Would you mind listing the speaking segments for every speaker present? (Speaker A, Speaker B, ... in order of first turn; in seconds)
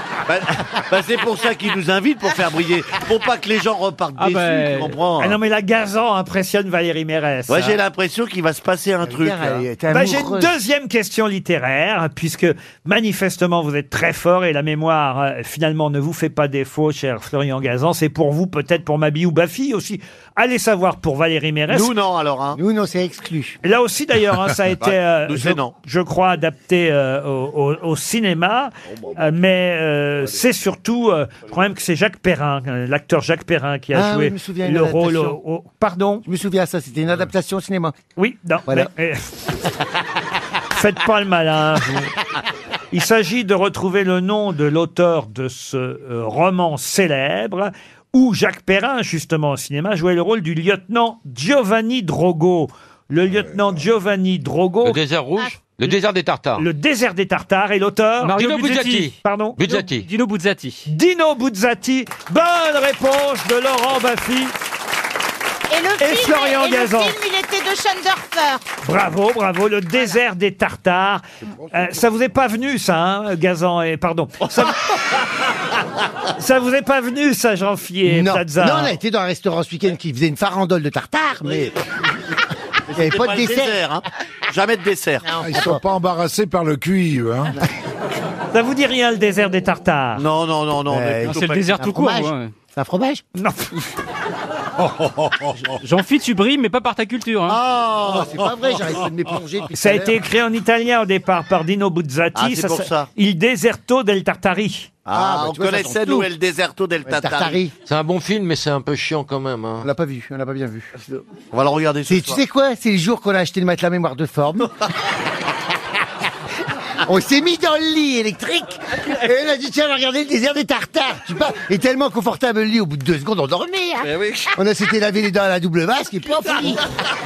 Speaker A: 0.3-5.4, 7.5-9.8, 21.7-22.6, 24.8-25.7, 82.9-85.5, 90.2-91.9, 102.3-103.1, 105.1-107.6, 111.5-112.4
Speaker B: 4.2-5.0, 58.2-59.1, 59.7-60.9, 91.2-92.5, 95.8-97.6
Speaker C: 5.2-7.8, 9.9-21.9, 23.6-36.2, 38.2-39.5, 40.7-42.1, 42.9-55.0, 56.6-59.8, 60.9-64.5, 66.0-67.2, 68.8-75.0, 76.4-79.0, 88.5-90.3, 93.4-93.7, 99.7-104.9
Speaker D: 9.0-10.5, 22.6-23.6, 33.9-35.4, 36.2-38.0, 78.1-81.7, 83.0-83.8, 85.3-85.6, 90.9-93.2, 97.7-100.2, 105.1-106.3, 107.1-107.7, 109.8-110.9, 112.1-114.7, 117.0-126.8
Speaker E: 53.2-53.9, 85.4-87.5
Speaker F: 54.9-56.6, 59.6-60.1, 107.9-109.9, 124.1-124.4
Speaker G: 65.7-68.6